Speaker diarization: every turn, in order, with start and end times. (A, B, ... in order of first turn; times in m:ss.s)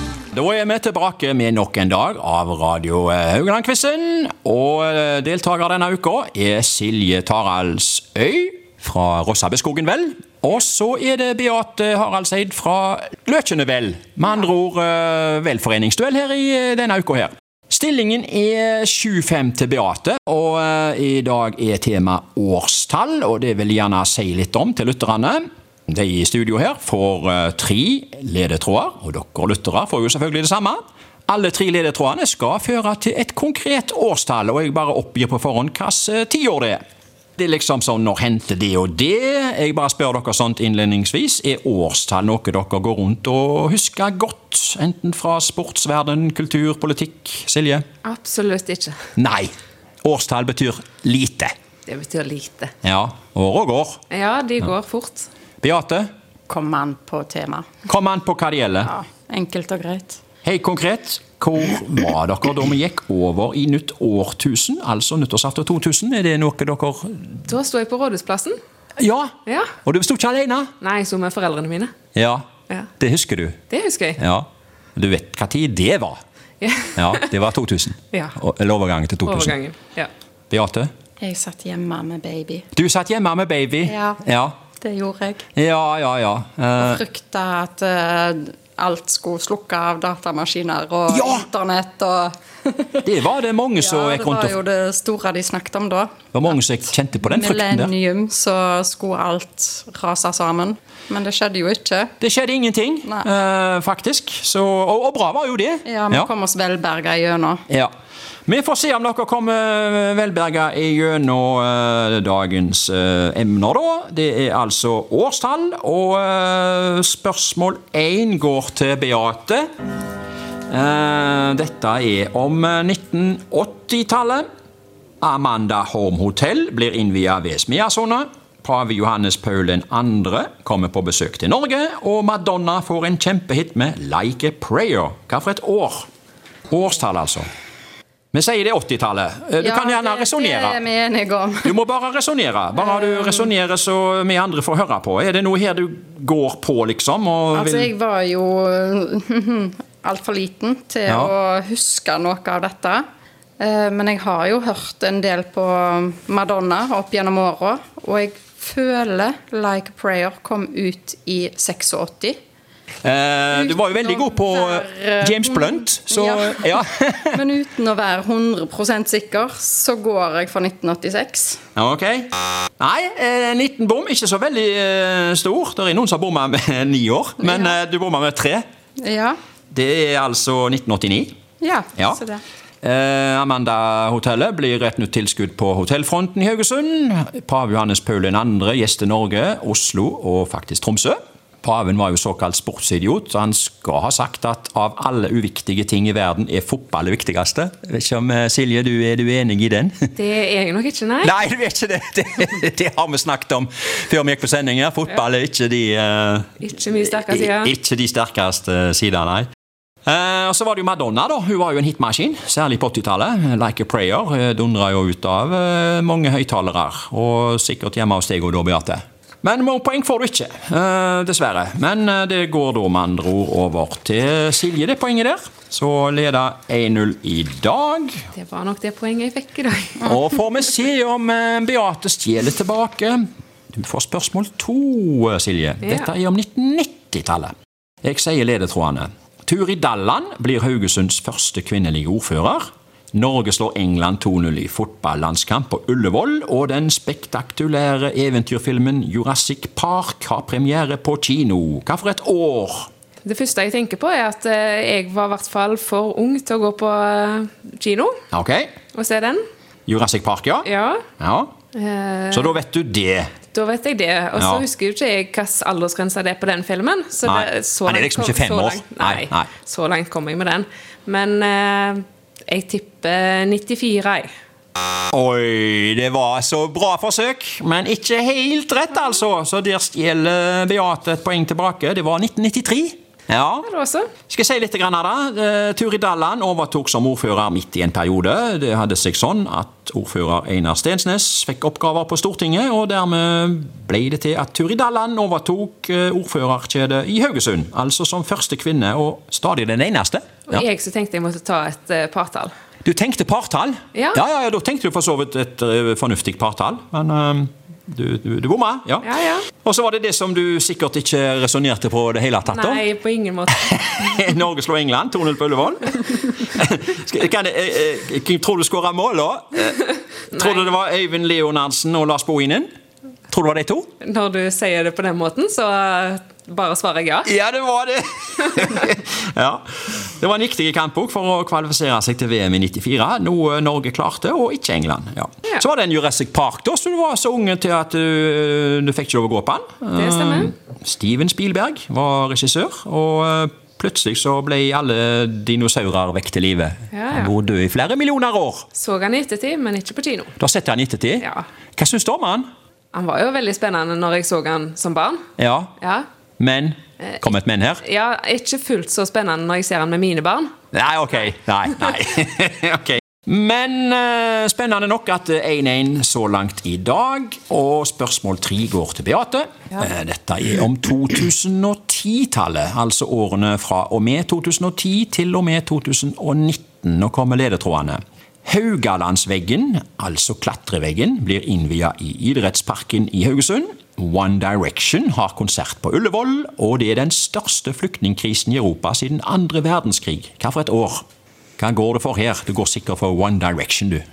0:00.3-0:36.8 A
0:37.4-0:47.8 A
0:48.0-0:49.0 B
0:49.2-0:49.5 A
0:50.0-0:51.5 A
0:51.9-0:52.7 B
0:52.8-0:54.0 A
0:54.1-0:55.3 B
0:55.6-0:56.1 A
0:56.5-0:57.7 C
0:57.9-0:58.9 A
0:58.8-1:00.2 C
1:00.4-1:07.3 A
1:07.5-1:08.6 B
1:09.0-1:10.7 A
1:09.5-1:09.7 B
1:10.8-1:11.9 B
1:12.2-1:12.5 A
1:13.0-1:13.6 A
1:13.7-1:14.2 B
1:14.2-1:16.2 A
1:16.6-1:17.2 B
1:17.0-1:19.5 A
1:19.2-1:20.1 B
1:20.5-1:20.9 A
1:21.2-1:22.7 C
1:22.7-1:24.6 A
1:23.9-1:24.2 C
1:24.8-1:25.4 C
1:25.6-1:27.0 A
1:26.8-1:33.1 C
1:31.1-1:31.5 A
1:33.0-1:34.6 A
1:33.8-1:36.2 C
1:36.3-1:37.9 A
1:37.2-1:42.1 C
1:42.2-1:46.3 A
1:45.8-1:47.6 C
1:48.5-1:59.6 A
2:00.7-2:04.5 A
2:05.2-2:16.1 A
2:16.7-2:17.5 A
2:18.3-2:20.8 A
2:19.6-2:21.7 C
2:21.6-2:27.9 A
2:27.5-2:33.0 C
2:31.1-2:31.3 A
2:33.6-2:42.4 C
2:43.0-2:47.4 A
2:43.5-2:46.8 C
2:47.3-2:51.6 C
2:51.8-2:58.6 A
2:57.4-2:57.8 C
2:59.0-2:59.4 C
2:59.7-3:01.3 A
3:01.6-3:02.4 C
3:02.0-3:02.2 A
3:02.8-3:20.1 A
3:20.2-3:21.3 B
3:21.2-3:26.6 A
3:26.6-3:27.7 B
3:27.1-3:29.5 A
3:30.1-3:48.3 A
3:48.4-3:50.1 B
3:50.0-4:12.9 A
4:13.2-4:18.2 B
4:18.3-4:18.7 A
4:18.9-4:19.4 B
4:19.9-4:20.7 A
4:20.7-4:21.1 B
4:21.2-4:21.5 A
4:21.7-4:22.6 B
4:22.3-4:23.3 A
4:23.5-4:34.3 B
4:24.4-4:24.6 A
4:27.2-4:29.5 A
4:35.1-4:43.7 A
4:43.6-4:44.1 B
4:44.3-5:00.6 A
5:00.5-5:02.5 B
5:02.8-5:09.1 A
5:04.0-5:04.2 B
5:09.0-5:09.5 B
5:09.6-5:12.8 A
5:12.5-5:14.3 B
5:13.5-5:22.7 A
5:20.3-5:20.7 B
5:23.3-5:23.9 A
5:24.0-5:27.3 B
5:27.2-5:48.7 A
5:40.0-5:40.5 B
5:46.9-5:47.3 B
5:48.8-5:50.3 B
5:50.4-5:52.5 A
5:52.9-5:55.2 B
5:55.4-5:55.8 A
5:55.8-5:56.1 B
5:56.4-5:57.8 A
5:57.8-6:00.5 B
6:00.7-6:31.0 A
6:31.6-6:34.0 A